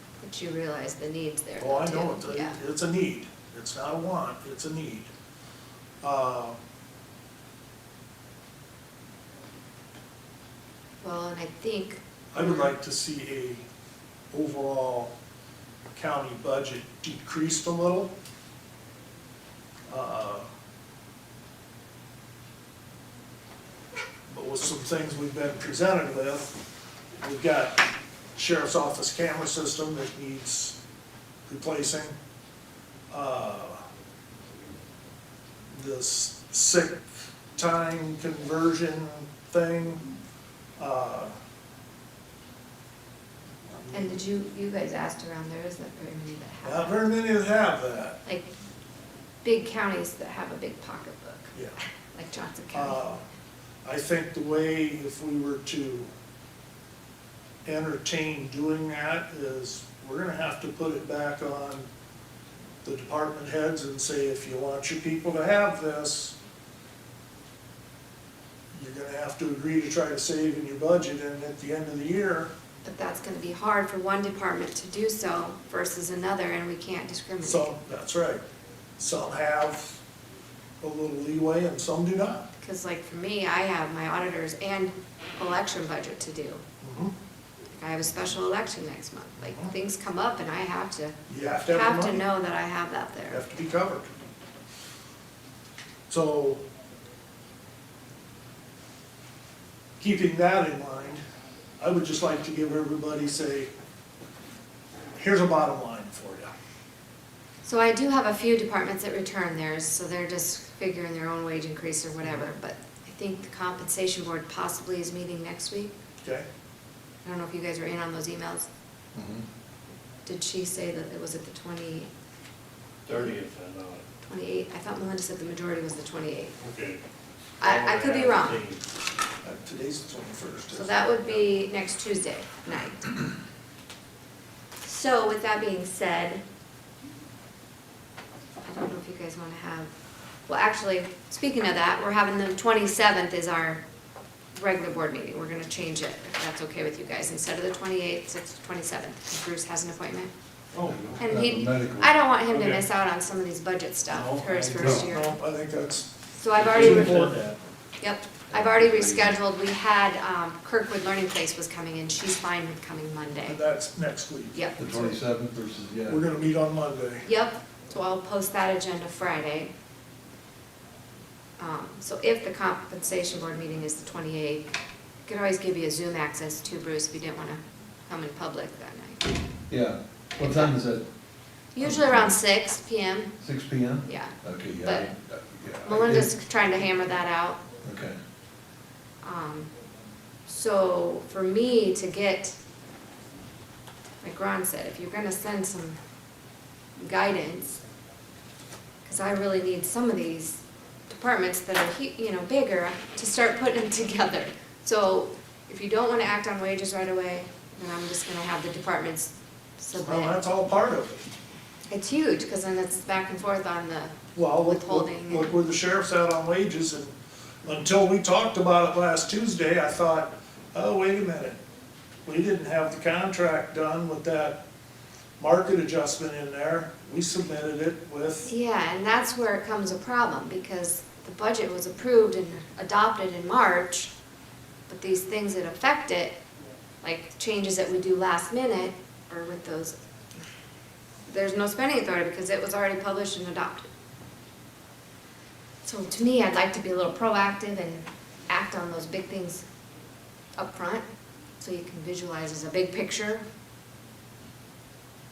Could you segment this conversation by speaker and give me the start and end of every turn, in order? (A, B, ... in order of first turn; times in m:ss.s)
0:00.2-0:02.6 A
0:01.6-0:05.1 B
0:06.0-0:06.6 B
0:11.0-0:12.7 A
0:12.3-0:13.6 B
0:14.3-0:15.1 B
0:15.9-0:18.1 B
0:19.9-0:20.4 B
0:24.3-0:26.6 B
0:27.2-0:27.8 B
0:28.4-0:30.8 B
0:31.5-0:32.1 B
0:33.1-0:33.8 B
0:35.7-0:40.0 B
0:40.8-0:41.3 B
0:43.8-0:44.2 B
0:43.9-0:47.0 A
0:46.6-0:48.2 B
0:49.4-0:51.5 A
0:52.1-0:53.0 A
0:52.7-0:53.2 B
0:53.8-0:56.1 B
0:57.6-1:01.9 B
1:02.8-1:06.4 B
1:08.7-1:12.5 B
1:12.8-1:17.7 A
1:17.4-1:18.4 B
1:19.0-1:20.0 B
1:20.8-1:22.4 B
1:22.6-1:26.6 A
1:26.8-1:27.1 B
1:27.7-1:31.2 A
1:29.4-1:29.7 B
1:31.3-1:32.3 B
1:31.7-1:33.4 A
1:33.3-1:34.1 B
1:36.1-1:36.6 B
1:40.0-1:41.2 B
1:41.8-1:43.7 B
1:45.2-1:46.5 B
1:47.6-1:55.9 A
1:57.2-1:58.7 A
1:59.1-1:59.4 C
2:00.2-2:02.1 A
2:03.0-2:04.0 D
2:04.2-2:06.5 A
2:06.6-2:07.0 D
2:07.6-2:08.6 A
2:07.6-2:08.8 D
2:09.4-2:11.4 B
2:10.7-2:13.0 A
2:14.8-2:16.4 A
2:18.6-2:19.9 A
2:20.5-2:23.8 A
2:24.6-2:30.3 A
2:30.7-2:31.1 B
2:31.2-2:32.1 C
2:31.2-2:35.4 A
2:32.5-2:32.9 D
2:34.1-2:35.0 D
2:34.8-2:35.1 C
2:34.8-2:36.1 B
2:36.4-2:37.2 A
2:36.6-2:37.6 D
2:36.6-2:37.4 B
2:38.0-2:43.6 A
2:38.5-2:39.2 D
2:43.4-2:44.7 B
2:44.5-2:45.1 A
2:44.8-2:46.2 C
2:46.1-2:47.2 B
2:47.2-2:49.7 A
2:51.6-2:54.7 A
2:55.2-2:59.2 A
2:59.7-3:01.1 C
3:00.4-3:00.7 A
3:01.7-3:03.4 A
3:01.8-3:02.2 C
3:03.4-3:06.3 C
3:04.0-3:05.1 A
3:05.8-3:07.6 A
3:07.8-3:08.2 C
3:09.2-3:09.7 A
3:10.5-3:12.6 A
3:14.2-3:16.0 A
3:17.0-3:17.8 A
3:19.0-3:30.4 A
3:29.9-3:31.2 B
3:31.9-3:35.6 A
3:34.3-3:37.1 B
3:37.6-3:41.6 B
3:42.2-3:44.6 B
3:45.4-3:48.5 B
3:48.5-3:54.1 A
3:54.9-3:56.4 A
3:57.0-4:00.0 A
4:01.3-4:03.9 A
4:05.8-4:09.6 A
4:10.6-4:11.0 A
4:11.6-4:13.4 A